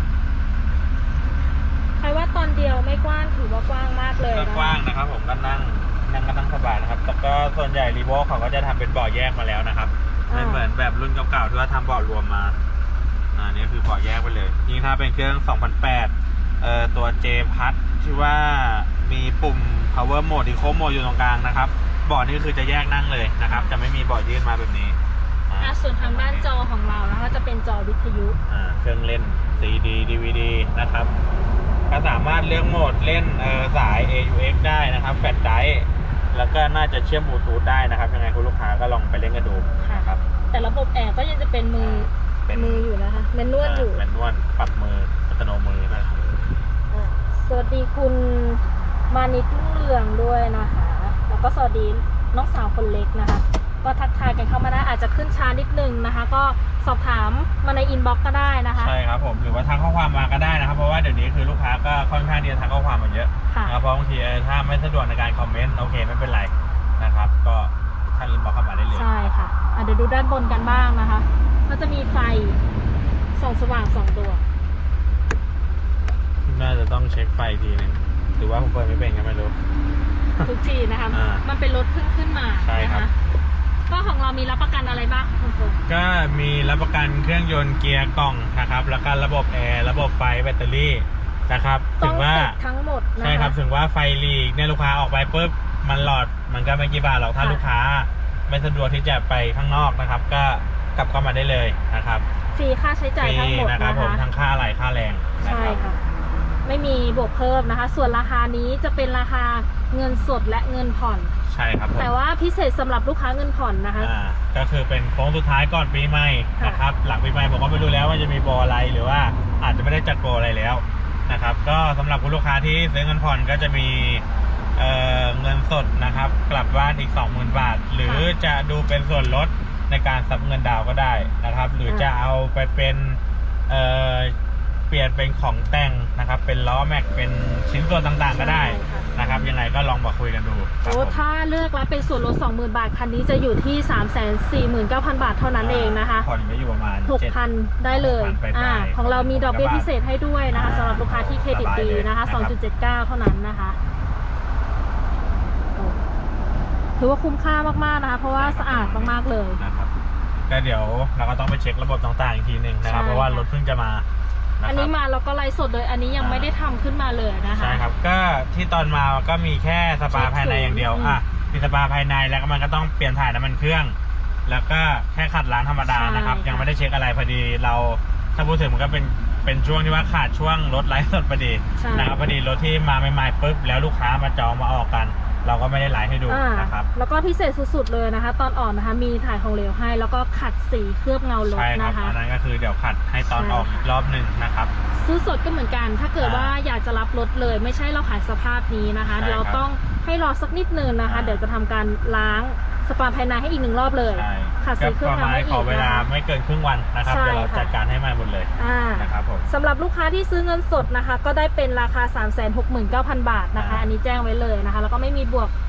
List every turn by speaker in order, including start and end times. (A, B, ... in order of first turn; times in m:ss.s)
0:02.0-0:04.8 A
0:04.2-0:12.6 B
0:10.3-0:10.6 A
0:13.4-0:25.0 B
0:23.5-0:23.7 A
0:25.5-0:26.5 B
0:25.6-0:28.4 A
0:28.5-0:31.1 B
0:31.9-0:40.2 B
0:39.8-0:44.0 A
0:41.8-0:42.9 B
0:43.6-0:46.2 B
0:46.9-0:58.9 A
0:58.7-1:09.1 B
1:03.5-1:03.8 A
1:08.9-1:12.6 A
1:13.4-1:14.4 A
1:16.5-1:19.6 B
1:20.4-1:23.1 A
1:21.1-1:21.4 B
1:22.6-1:23.1 B
1:23.9-1:25.8 A
1:25.9-1:32.6 B
1:32.0-1:33.6 A
1:33.2-1:42.2 B
1:37.4-1:37.6 A
1:42.5-1:44.2 A
1:43.2-1:45.9 B
1:45.4-1:46.0 A
1:46.6-1:51.4 A
1:51.5-1:52.1 B
1:52.0-1:54.1 A
1:54.0-2:04.2 B
1:56.6-1:56.8 A
2:04.8-2:14.4 B
2:08.0-2:08.3 A
2:11.9-2:12.1 A
2:14.9-2:21.2 B
2:18.3-2:19.1 A
2:20.8-2:26.3 A
2:25.6-2:27.4 B
2:27.1-2:33.8 A
2:27.9-2:29.9 B
2:30.5-2:32.5 B
2:37.0-2:39.6 A
2:38.3-2:39.9 B
2:40.5-2:44.0 B
2:42.8-2:43.5 A
2:44.6-2:44.9 B
2:44.6-2:47.8 A
2:46.2-2:46.5 B
2:47.5-3:06.9 B
2:50.1-2:51.2 A
2:55.8-2:56.7 A
3:01.8-3:02.1 A
3:06.3-3:12.2 A
3:11.4-3:14.7 B
3:13.3-3:13.9 A
3:14.9-3:26.0 A
3:16.2-3:16.5 B
3:19.1-3:19.6 B
3:21.0-3:21.4 B
3:24.1-3:29.5 B
3:27.0-3:27.7 A
3:28.6-3:35.5 A
3:33.5-3:33.9 B